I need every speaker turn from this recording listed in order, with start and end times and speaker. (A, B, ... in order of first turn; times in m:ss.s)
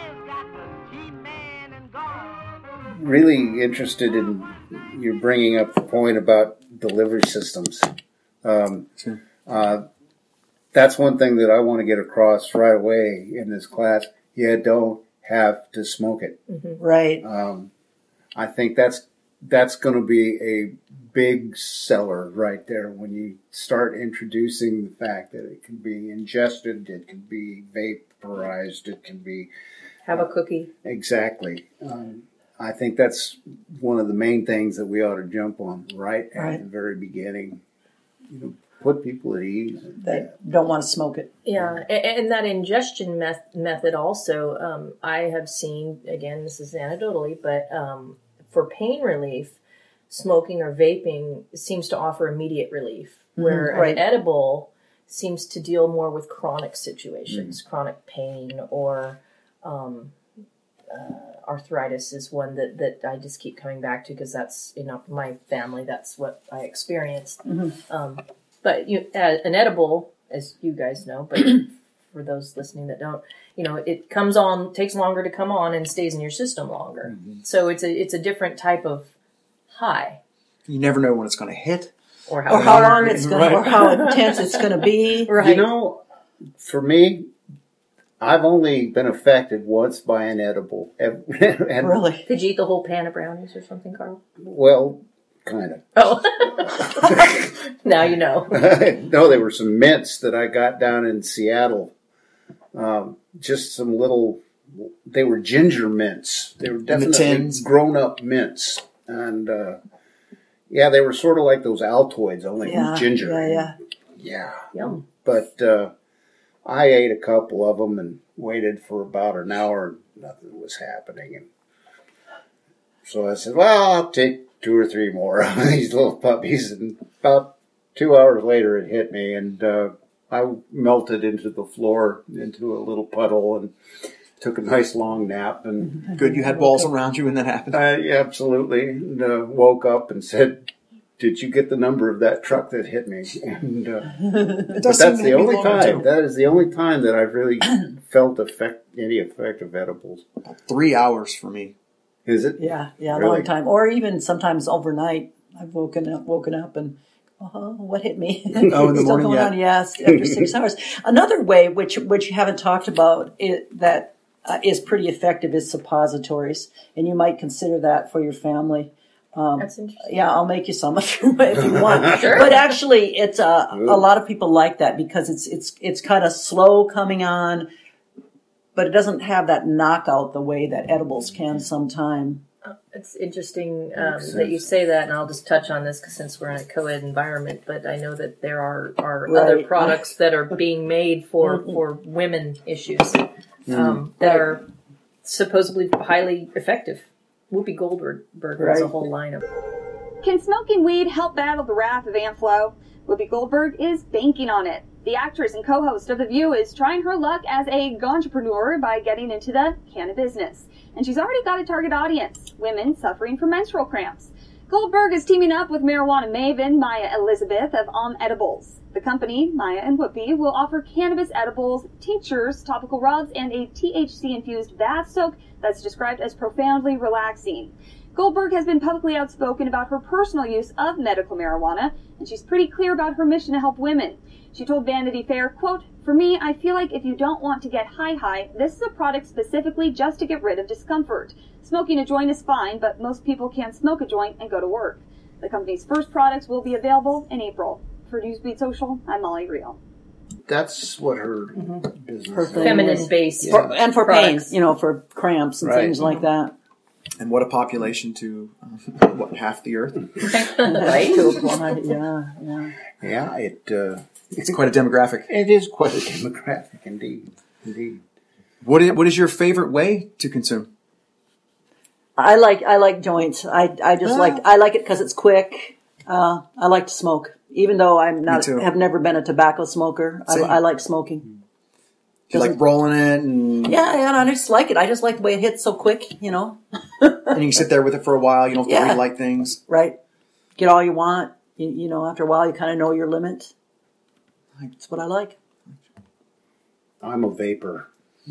0:02.9-0:07.9 A
0:08.4-0:08.9 A
0:09.4-0:09.8 A
0:10.7-0:16.4 A
0:16.5-0:16.8 B
0:16.8-0:17.2 C
0:17.2-0:17.7 A
0:18.3-0:29.5 A
0:30.0-0:30.7 B
0:30.8-0:37.6 A
0:38.3-0:40.3 A
0:40.0-0:41.3 C
0:41.4-1:00.1 B
0:53.4-0:54.0 C
0:57.3-0:57.5 A
1:00.9-1:19.1 B
1:07.4-1:07.7 C
1:17.1-1:17.4 A
1:19.7-1:20.2 B
1:20.7-1:21.9 D
1:22.3-1:24.6 B
1:22.5-1:25.4 C
1:22.5-1:24.0 D
1:25.3-1:25.7 B
1:25.4-1:26.0 A
1:26.6-1:27.3 A
1:28.2-1:32.0 A
1:31.8-1:32.3 C
1:32.2-1:34.2 B
1:34.4-1:35.9 A
1:36.0-1:38.6 B
1:37.0-1:37.4 A
1:38.5-1:41.9 A
1:42.7-1:49.8 A
1:46.9-1:47.7 D
1:50.7-1:55.9 A
1:52.6-1:53.7 C
1:54.7-1:55.0 B
1:56.6-2:01.5 A
2:03.0-2:13.7 A
2:14.4-2:16.0 A
2:16.1-2:17.8 D
2:17.7-2:30.3 A
2:24.7-2:26.0 D
2:30.4-2:31.7 D
2:32.2-2:33.5 A
2:32.6-2:57.7 C
2:38.6-2:39.5 D
2:49.6-2:50.2 B
2:52.1-2:52.6 B
2:58.7-3:02.4 C
3:02.6-3:14.6 B
3:03.9-3:04.7 A
3:09.3-3:10.0 C
3:11.4-3:11.8 C
3:13.7-3:14.0 A
3:14.2-3:14.6 C
3:15.2-3:19.4 B
3:18.6-3:18.9 C
3:20.2-4:09.8 E
4:10.5-4:13.8 A
4:11.6-4:11.8 B
4:12.3-4:16.5 C
4:12.5-4:14.5 B
4:15.6-4:16.0 A
4:17.2-4:20.2 D
4:20.3-4:21.6 B
4:20.6-4:22.7 C
4:23.0-4:24.6 A
4:24.4-4:25.3 D
4:25.3-4:28.0 A
4:28.6-4:30.7 D
4:32.2-4:41.2 C
4:34.0-4:34.4 D
4:38.3-4:38.7 D
4:40.3-4:40.6 D
4:42.3-4:43.8 D
4:43.6-4:47.4 C
4:47.3-4:49.6 D
4:48.7-4:49.0 C
4:49.7-4:50.0 C
4:50.6-4:53.5 C
4:54.8-4:55.4 C
4:57.0-4:57.9 A